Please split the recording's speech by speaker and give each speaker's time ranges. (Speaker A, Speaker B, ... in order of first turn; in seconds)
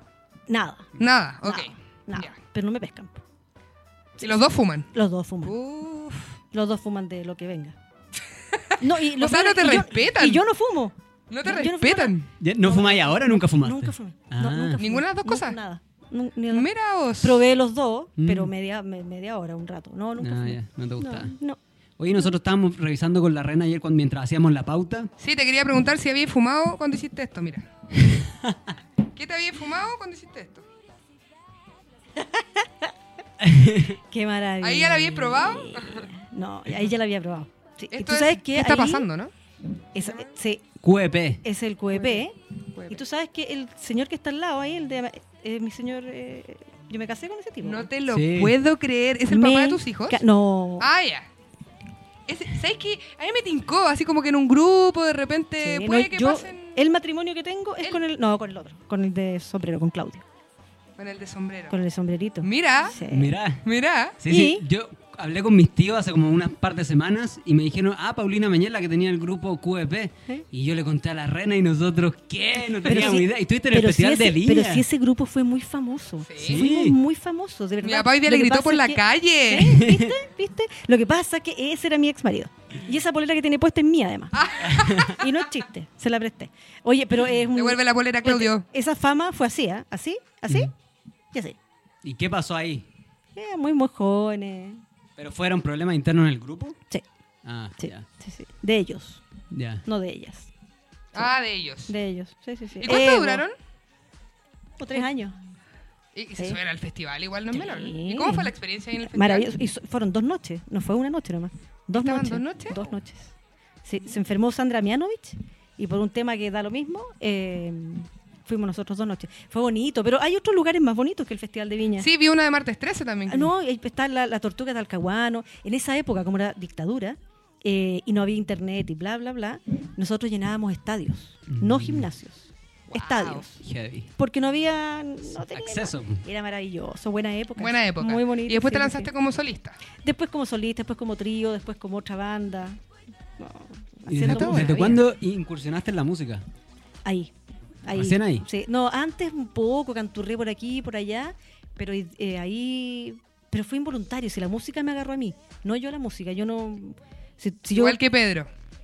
Speaker A: 0.5-0.9, 1.4-3.2, 4.9-5.6, 6.5-7.7, 8.8-16.7, 17.2-21.6, 32.2-32.9, 34.1-39.1, 39.9-40.6, 41.4-42.4, 42.9-47.9, 49.3-50.9, 55.6-60.2, 61.7-63.4, 64.3-64.6, 72.8-90.7, 93.3-94.8, 97.8-99.2, 99.8-100.5, 101.9-103.4, 104.8-105.4, 107.5-113.3, 113.8-122.1, 123.3-133.6, 134.2-139.1, 140.0-142.8, 143.4-145.0, 147.1-158.0
Speaker B: 1.0-2.3, 4.2-4.9, 5.4-6.4, 8.5-10.4, 11.3-12.3, 14.8-15.6, 16.5-17.4, 25.2-27.6, 29.1-30.6, 34.6-36.1, 37.9-39.3, 41.9-42.2, 42.7-43.0, 47.6-50.2, 50.8-51.2, 52.3-56.8, 61.0-61.7, 62.4-63.0, 63.6-64.2, 76.3-76.6, 77.8-79.8, 84.3-85.4, 87.5-88.6, 101.1-101.9, 102.8-103.5, 106.1-109.5, 112.0-112.9, 122.0-123.5, 132.9-133.4, 137.6-139.8, 144.3-144.8, 157.7-158.5
Speaker C: 12.4-14.8, 18.2-18.5, 20.2-21.4, 22.0-25.1, 28.0-28.7, 33.4-34.0, 40.8-41.4, 48.1-48.6, 63.1-63.7, 64.2-74.8, 76.4-77.0, 84.7-85.0, 92.0-92.9, 95.2-96.8, 97.4-98.1, 99.5-99.8, 131.5-132.1, 133.6-134.1, 135.5-136.2, 144.1-146.4, 147.9-148.4